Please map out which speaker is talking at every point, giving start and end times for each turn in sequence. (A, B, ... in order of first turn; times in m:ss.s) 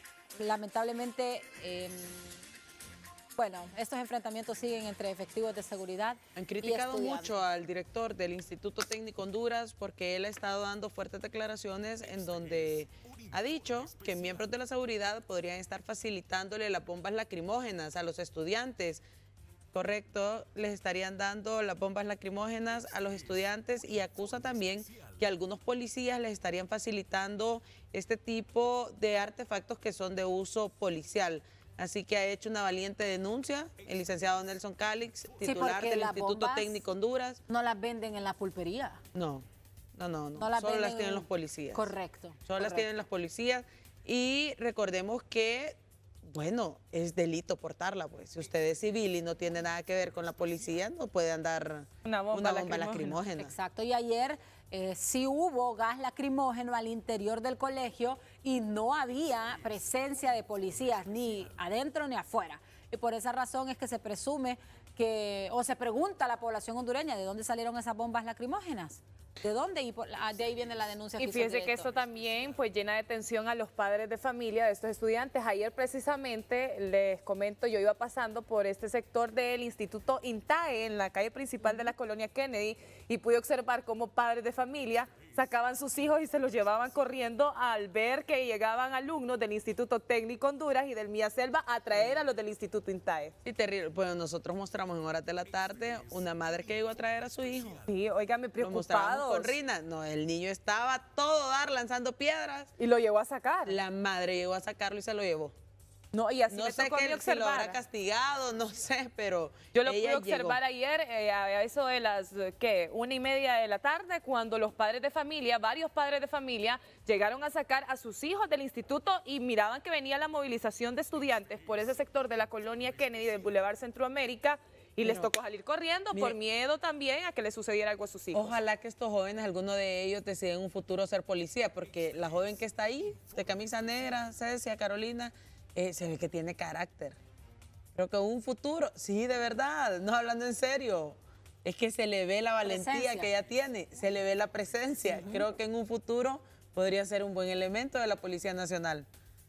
0:00.4-0:02.4 A
0:03.4-0:07.4 A
0:06.4-0:19.0 B
0:19.7-0:37.4 B
0:35.4-0:36.8 A
0:37.5-0:39.0 A
0:39.1-0:41.9 B
0:40.4-0:42.9 A
0:42.5-0:53.5 B
0:52.0-0:53.2 C
0:53.4-1:11.9 A
1:11.2-1:33.3 C
1:33.4-1:37.8 B
1:37.8-1:39.6 C
1:38.6-1:42.7 B
1:42.8-1:43.8 C
1:43.7-1:45.5 B
1:46.1-1:47.8 C
1:46.5-1:50.6 B
1:49.7-2:08.5 C
2:05.0-2:05.3 B
2:06.1-2:06.4 B
2:08.3-2:17.2 B
2:18.0-2:29.1 B
2:22.6-2:23.3 A